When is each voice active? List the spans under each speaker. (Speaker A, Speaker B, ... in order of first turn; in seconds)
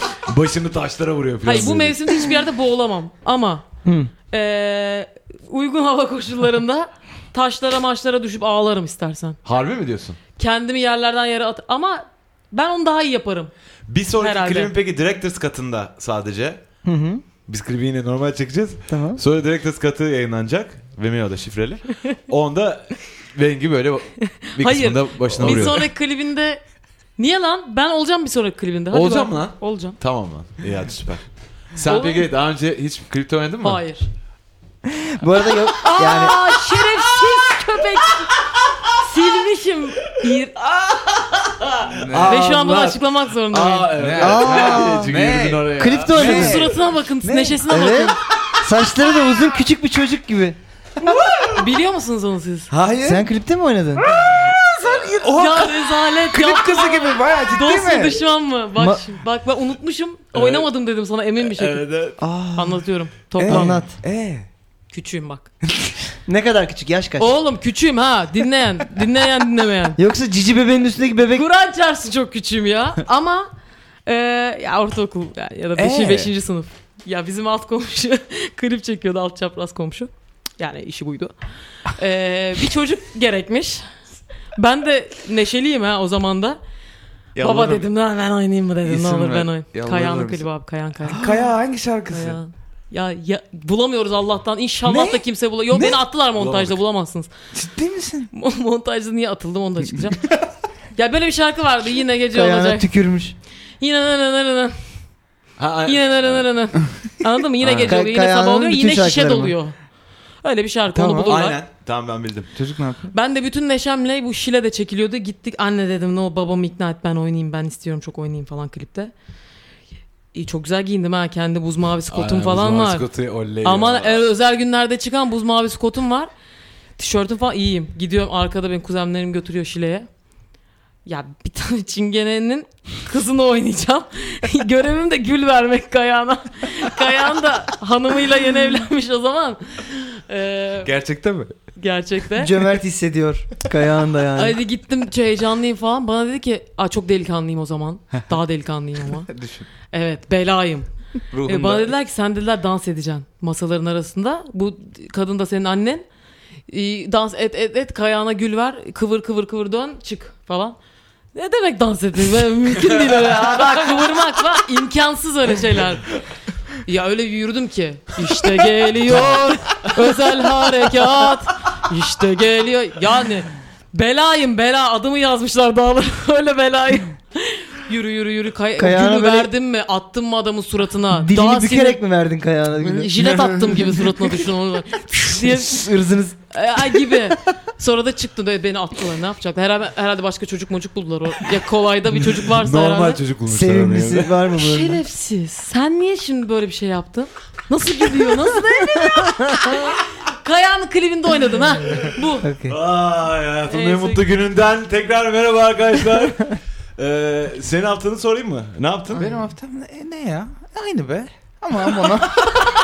Speaker A: 0.2-2.0, 9.4-10.2, 13.9-16.6, 17.5-25.9, 28.9-33.8, 40.5-46.6, 54.2-55.2, 60.3-60.7, 61.4-62.2, 96.3-96.8, 105.6-106.5, 107.6-107.9, 111.2-112.5, 122.1-124.3, 192.5-194.3, 202.7-209.3
Speaker B: 1.4-3.6, 4.3-9.4, 10.4-13.5, 14.2-14.7, 24.6-26.6, 27.2-30.0, 31.8-32.3, 33.6-34.1, 35.8-38.3, 39.0-40.5, 42.3-43.9, 46.1-48.2, 51.5-52.7, 55.2-61.9, 62.5-63.8, 64.9-65.5, 67.2-70.0, 71.3-73.5, 74.0-83.9, 84.5-86.6, 87.4-91.3, 92.1-97.3, 98.3-100.3, 100.9-102.9, 103.8-104.8, 105.8-109.7, 110.4-111.6, 113.1-119.1, 120.3-123.0, 123.6-126.3, 127.0-130.1, 131.1-140.9, 141.8-142.6, 144.3-149.3, 149.9-150.9, 151.4-156.1, 156.7-160.8, 161.3-166.1, 166.8-182.0, 182.8-185.9, 186.5-193.2, 194.6-202.5, 203.7-204.3
Speaker C: 3.8-4.1, 16.8-17.2, 18.9-19.2, 34.9-36.4, 44.2-45.2, 45.7-46.7, 47.7-51.1, 53.0-54.1, 58.8-59.0, 63.4-64.0, 66.2-67.3, 70.0-71.4, 102.3-103.3, 107.8-109.5, 110.9-111.3, 142.4-144.6, 178.8-179.5, 181.1-183.5, 185.3-186.4, 193.5-195.0, 199.2-199.6, 202.4-202.8
Speaker D: 41.9-42.5, 43.9-47.7, 52.7-53.3, 54.3-58.2, 62.2-62.9, 63.4-64.5, 75.8-76.3, 87.4-87.8, 88.8-90.5, 91.1-92.4, 94.8-96.0, 97.5-98.3, 112.5-113.1, 140.8-141.5, 149.3-149.7, 151.3-151.9, 170.0-170.3, 209.1-212.7